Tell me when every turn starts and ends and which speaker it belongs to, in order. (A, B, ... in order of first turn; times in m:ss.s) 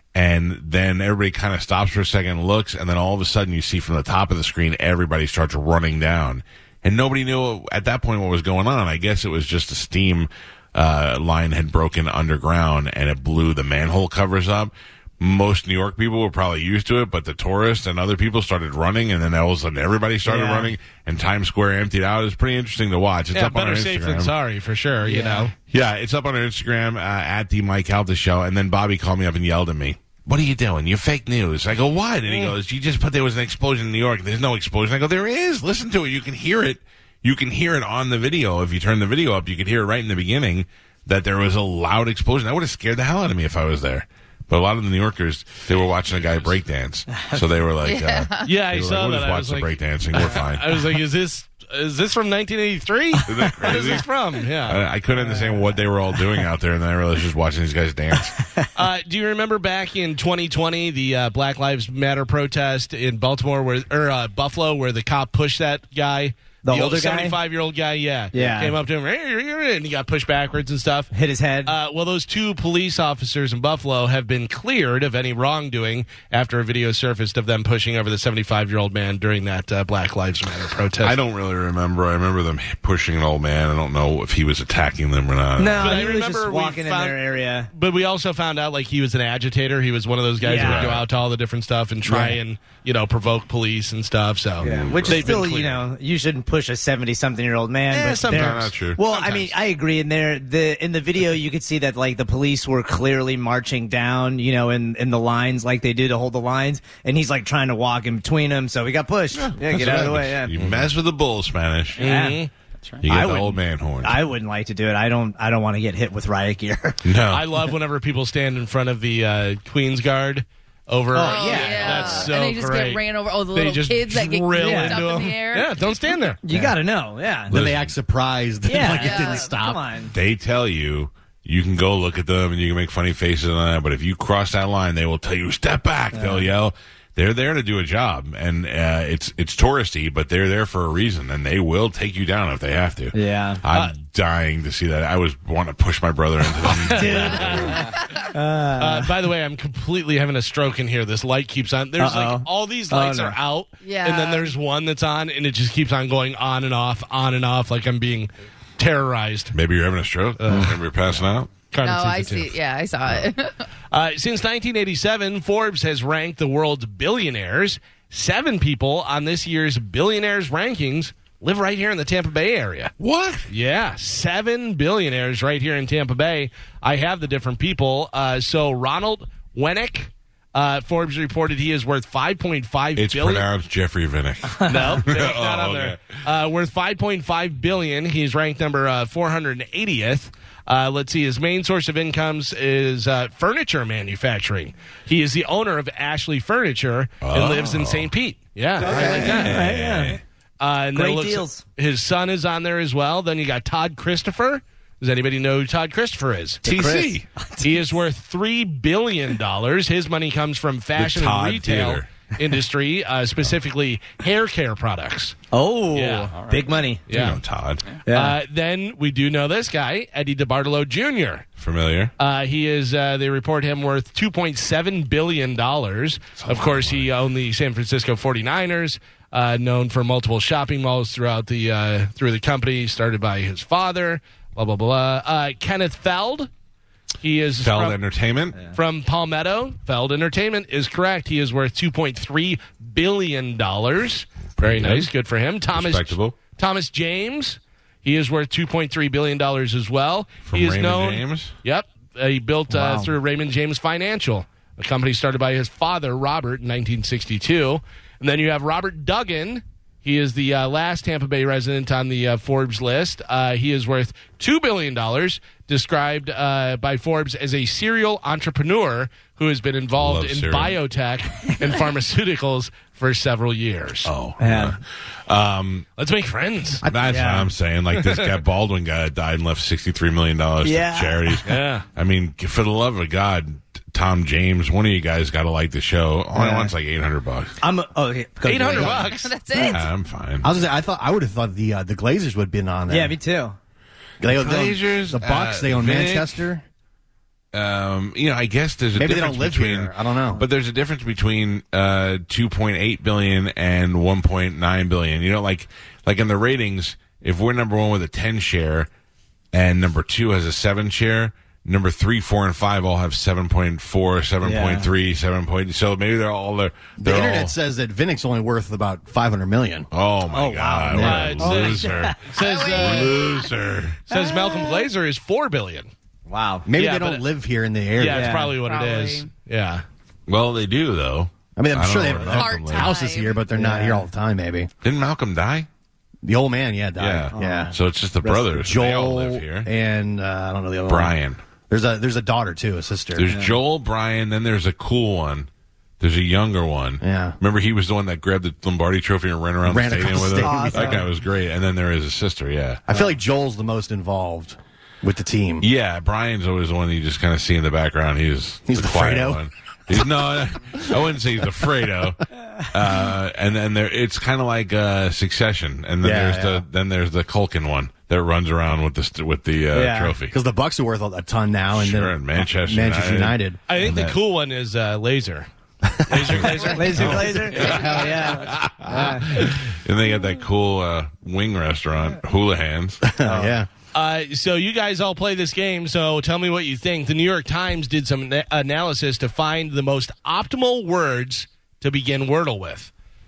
0:00.1-0:24.3 A
0:20.2-0:20.7 B
0:23.3-0:25.5 C
0:25.0-0:25.5 B
0:25.7-0:50.8 A
0:32.2-0:32.6 C
0:47.8-0:48.5 D
0:48.4-0:54.8 C
0:53.2-0:54.1 A
0:54.6-0:58.4 A
0:55.2-0:55.7 B
0:58.4-0:58.7 B
0:58.7-1:11.1 C
1:06.6-1:07.4 B
1:08.3-1:08.8 B
1:11.1-1:11.7 B
1:11.6-1:21.2 C
1:21.0-1:26.1 A
1:25.6-1:27.7 B
1:25.8-1:35.8 C
1:30.4-1:30.9 B
1:30.5-1:31.0 A
1:32.0-1:32.4 B
1:34.6-1:35.4 A
1:34.6-1:50.6 B
1:37.9-1:39.5 C
1:38.2-1:39.0 A
1:49.5-1:52.0 A
1:52.0-1:52.5 B
1:52.0-1:52.5 C
1:53.0-1:54.2 A
1:53.0-1:57.0 B
1:57.0-1:57.4 A
1:57.3-2:06.4 C
2:01.1-2:02.3 B
2:01.2-2:05.7 D
2:04.6-2:05.1 B
2:06.4-2:07.5 B
2:07.5-2:09.8 E
2:07.5-2:07.9 A
2:08.6-2:10.1 B
2:08.9-2:09.5 D
2:10.1-2:27.8 A
2:16.1-2:16.5 B
2:23.1-2:23.6 B
2:23.7-2:24.0 C
2:26.7-2:28.0 C
2:26.8-2:29.1 B
2:28.8-2:39.5 C
2:32.0-2:33.4 B
2:33.8-2:34.6 D
2:39.5-2:41.5 A
2:40.4-2:40.8 C
2:41.7-2:42.5 C
2:41.8-2:43.6 D
2:43.9-2:52.9 C
2:53.0-2:53.5 A
2:53.5-3:03.4 C
3:03.0-3:06.0 A
3:04.6-3:05.0 B
3:04.7-3:19.6 C
3:17.2-3:18.1 A
3:18.8-3:20.2 A
3:18.8-3:20.2 B
3:20.6-3:26.6 C
3:20.9-3:21.6 B
3:26.6-3:27.2 A
3:26.6-3:27.7 B
3:27.6-3:35.4 C
3:31.0-3:32.0 A
3:35.5-3:37.0 B
3:35.9-3:36.4 C
3:37.1-3:37.4 C
3:37.1-3:37.8 A
3:38.0-3:38.4 B
3:38.0-3:41.4 C
3:41.6-3:42.1 A
3:42.2-3:56.5 C
3:46.4-3:47.1 A
3:57.2-3:58.0 C
3:57.6-3:58.6 A
3:58.6-4:34.1 C
4:04.6-4:05.1 A
4:05.7-4:06.4 A
4:10.4-4:11.5 A
4:12.7-4:13.1 B
4:30.0-4:30.8 A
4:34.0-4:35.9 A
4:34.4-4:34.8 B
4:36.0-4:36.8 C
4:36.8-4:47.5 A
4:37.0-4:37.5 B
4:37.9-4:38.3 C
4:40.6-4:41.4 B
4:41.4-4:41.8 C
4:46.3-4:46.7 B
4:47.6-4:49.7 B
4:48.4-4:49.3 C
4:49.0-4:49.8 D
4:49.6-4:50.5 A
4:50.4-4:53.1 E
4:52.9-4:53.6 B
4:54.2-4:56.6 E
4:54.2-4:56.4 A
4:57.5-5:08.9 A
4:58.9-5:00.4 E
5:09.5-5:17.5 A
5:14.4-5:14.9 B
5:17.0-5:19.9 E
5:19.9-5:24.0 A
5:20.3-5:22.3 B
5:20.9-5:21.4 E
5:21.0-5:23.2 C
5:22.3-5:23.4 D
5:24.1-5:25.9 C
5:24.1-5:24.8 B
5:26.3-5:26.7 B
5:26.6-5:28.4 E
5:26.8-5:27.2 C
5:28.0-5:29.8 C
5:28.1-5:28.5 B
5:28.5-5:29.3 D
5:30.3-5:32.9 A
5:31.6-5:34.7 E
5:32.2-5:33.4 D
5:33.5-5:34.0 B
5:34.8-5:35.7 A
5:36.2-5:41.1 E
5:37.0-5:39.7 A
5:37.3-5:37.7 B
5:40.9-5:41.4 A
5:41.7-5:43.3 E
5:43.1-5:45.5 A
5:43.3-5:43.6 B
5:46.0-5:52.8 A
5:47.0-5:47.4 E
5:49.6-5:51.1 E
5:50.4-5:51.0 B
5:52.9-5:55.7 E
5:55.6-6:10.4 A
5:58.7-6:00.0 E
6:06.0-6:06.6 E
6:09.7-6:10.2 B
6:10.3-6:13.6 E
6:11.7-6:14.2 A
6:13.7-6:15.5 C
6:15.8-6:18.2 E
6:16.1-6:17.9 C
6:16.7-6:19.2 B
6:16.9-6:23.0 A
6:23.0-6:23.7 E
6:23.2-6:23.5 B
6:23.9-6:32.9 C